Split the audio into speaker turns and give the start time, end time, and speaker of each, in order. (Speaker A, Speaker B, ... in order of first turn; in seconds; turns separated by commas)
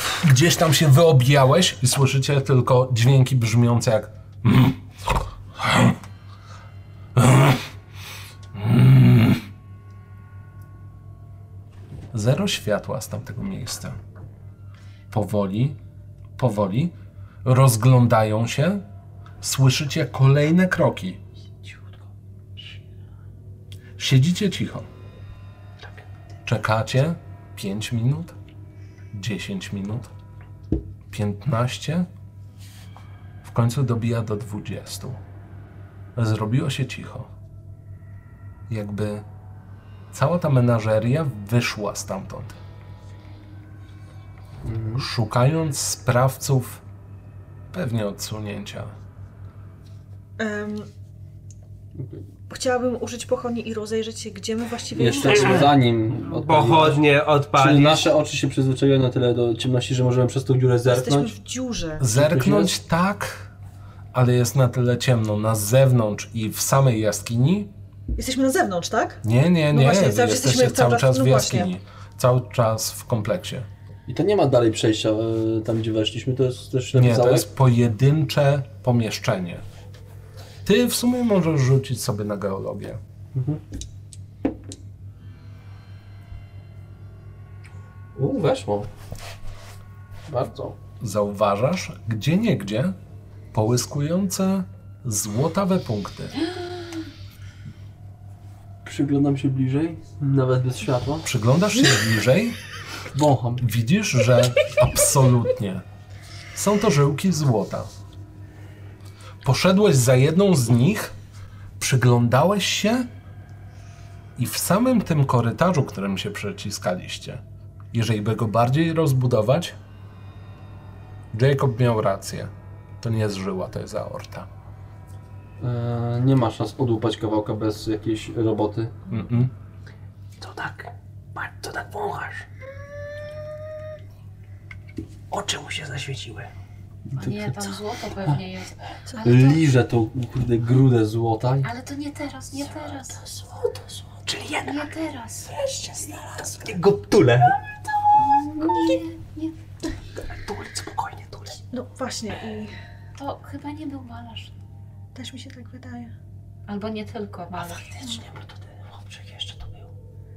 Speaker A: 0.2-4.8, Speaker A: 5.6-6.0, Speaker A: 7.2-7.7, Speaker A: 8.5-9.4, Speaker A: 12.1-14.0, Speaker A: 15.1-15.8, Speaker A: 16.4-18.8, Speaker A: 19.4-21.2, Speaker A: 24.0-24.9, Speaker A: 26.4-28.4, Speaker A: 29.1-30.1, Speaker A: 31.1-32.1, Speaker A: 33.4-35.2, Speaker A: 36.2-37.3, Speaker A: 38.7-39.2, Speaker A: 40.1-42.6, Speaker B: 44.6-45.1, Speaker A: 45.0-46.8, Speaker A: 47.7-48.9, Speaker C: 50.4-50.9, Speaker B: 52.0-52.2, Speaker C: 52.5-55.8, Speaker B: 54.9-61.3, Speaker D: 55.2-58.1, Speaker C: 60.9-62.1, Speaker A: 62.0-63.5, Speaker B: 62.1-62.7, Speaker A: 64.1-67.7, Speaker C: 68.2-71.7, Speaker A: 69.2-73.7, Speaker B: 74.1-77.5, Speaker A: 76.9-79.6, Speaker A: 80.7-83.0, Speaker B: 83.3-83.6, Speaker B: 88.2-88.9, Speaker B: 90.3-90.8, Speaker A: 91.0-93.0, Speaker A: 93.5-96.4, Speaker B: 98.8-101.3, Speaker A: 101.2-102.6, Speaker B: 103.1-103.6, Speaker A: 103.6-105.8, Speaker A: 106.5-107.9, Speaker A: 109.4-111.1, Speaker A: 111.8-113.1, Speaker A: 114.4-117.4, Speaker A: 117.9-119.8, Speaker A: 121.3-124.5, Speaker B: 125.6-129.0, Speaker A: 129.1-129.5, Speaker D: 130.4-132.4, Speaker D: 135.3-136.5, Speaker B: 137.1-138.4, Speaker E: 137.2-139.6, Speaker C: 139.1-139.4, Speaker B: 139.2-141.7, Speaker E: 141.6-143.2, Speaker B: 142.7-143.8, Speaker D: 144.3-144.9, Speaker E: 144.7-145.5, Speaker B: 145.5-146.7, Speaker D: 146.5-147.6, Speaker E: 148.2-149.5, Speaker D: 150.2-151.6, Speaker C: 151.7-152.7, Speaker E: 153.2-154.5, Speaker C: 155.2-156.1, Speaker E: 156.7-158.0, Speaker B: 157.9-158.2, Speaker D: 159.3-159.6